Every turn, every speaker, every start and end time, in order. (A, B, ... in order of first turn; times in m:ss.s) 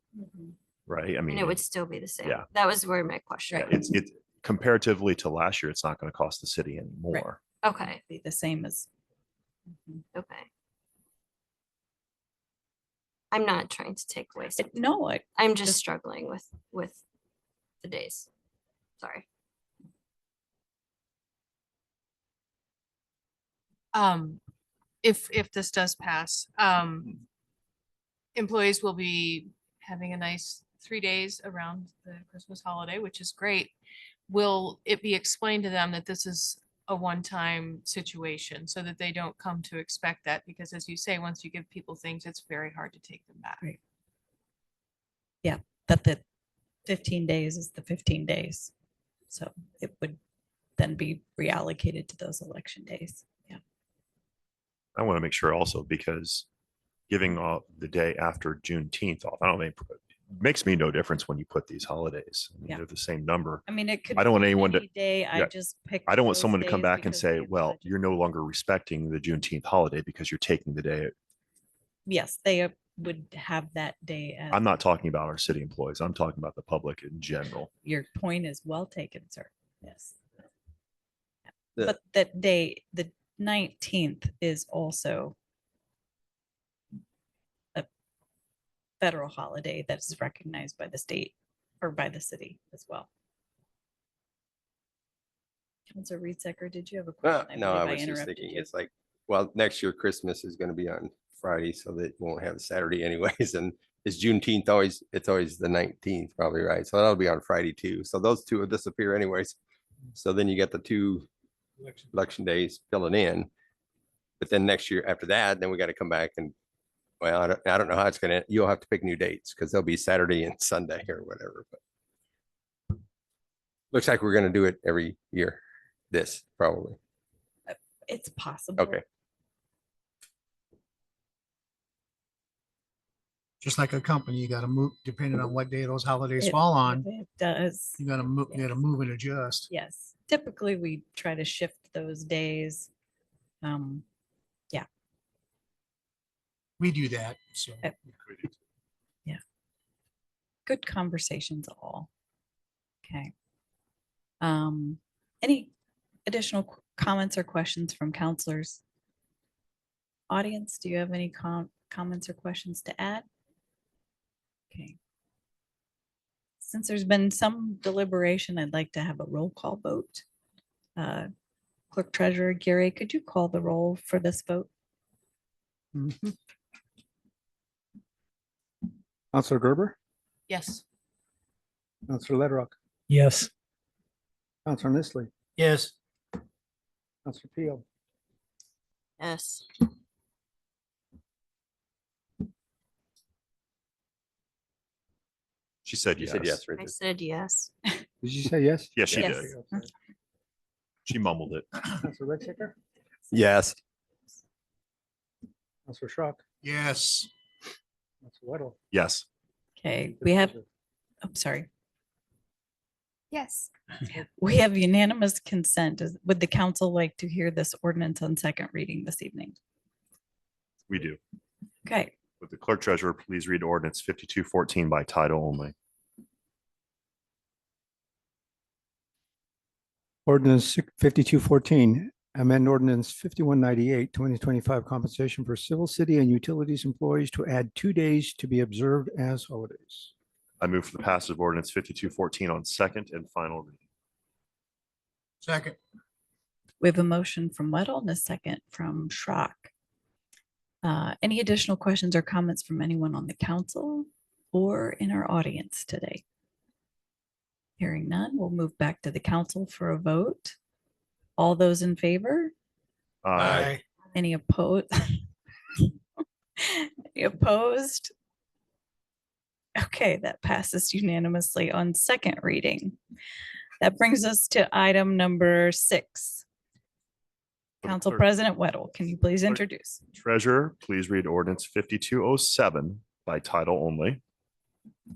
0:00.2-0:00.5 A
0:00.9-0:01.6 B
0:01.3-0:03.7 C
0:03.5-0:03.8 A
0:03.6-0:07.4 B
0:07.6-0:08.0 C
0:07.8-0:08.9 A
0:09.7-0:10.0 A
0:10.1-0:10.5 C
0:13.3-0:14.8 C
0:14.6-0:15.8 A
0:15.4-0:17.0 C
0:17.8-0:18.3 C
0:19.0-0:19.2 C
0:23.9-0:24.4 D
0:25.0-0:27.2 D
0:28.4-0:33.7 D
0:34.3-0:43.6 D
0:45.4-0:46.2 A
0:46.9-0:48.7 A
0:49.3-0:50.2 A
0:50.8-0:53.6 A
0:55.0-0:56.5 B
0:57.1-1:05.5 B
1:03.7-1:08.0 A
1:06.1-1:11.1 B
1:12.1-1:14.8 A
1:14.5-1:17.7 B
1:17.8-1:20.2 A
1:21.8-1:25.4 A
1:29.0-1:33.1 A
1:35.9-1:38.7 A
1:37.2-1:49.6 E
1:50.1-1:51.3 E
1:52.1-1:53.5 E
1:54.4-1:56.5 E
1:57.2-2:01.8 E
2:03.9-2:05.6 E
2:06.1-2:07.0 E
2:07.7-2:09.0 A
2:08.8-2:09.0 E
2:13.6-2:17.0 F
2:16.4-2:18.7 A
2:18.0-2:19.7 F
2:19.7-2:22.9 A
2:23.6-2:24.0 A
2:26.8-2:27.8 F
2:30.7-2:32.1 A
2:33.0-2:33.3 A
2:34.4-2:35.7 A
2:36.3-2:38.8 A
2:40.3-2:43.3 A
2:44.7-2:45.0 A
2:46.6-2:50.2 A
2:51.0-2:51.3 A
2:51.9-2:54.7 A
2:59.3-3:00.0 G
3:00.5-3:00.8 D
3:02.1-3:02.7 G
3:04.7-3:05.3 G
3:05.6-3:05.9 F
3:07.2-3:07.8 G
3:09.2-3:09.7 C
3:15.8-3:16.6 B
3:16.2-3:17.0 E
3:16.8-3:17.7 C
3:18.2-3:19.9 G
3:19.0-3:19.5 B
3:21.1-3:21.7 B
3:22.0-3:22.8 G
3:23.3-3:23.8 E
3:25.9-3:26.4 G
3:26.6-3:27.3 F
3:28.2-3:28.8 G
3:28.9-3:29.3 B
3:29.8-3:30.6 A
3:30.2-3:30.6 G
3:31.2-3:31.7 A
3:34.4-3:39.6 A
3:40.9-3:41.2 B
3:41.8-3:42.1 A
3:42.4-3:45.7 B
3:50.3-4:00.1 G
4:00.6-4:03.8 B
4:05.4-4:05.8 F
4:06.8-4:09.7 A
4:10.8-4:16.2 A
4:17.8-4:20.6 A
4:21.4-4:22.5 A
4:23.2-4:23.7 B
4:23.4-4:23.8 F
4:24.1-4:26.0 A
4:26.6-4:28.1 A
4:29.8-4:33.0 A
4:33.8-4:36.4 A
4:37.8-4:38.2 B
4:37.8-4:40.0 A
4:40.1-4:44.2 B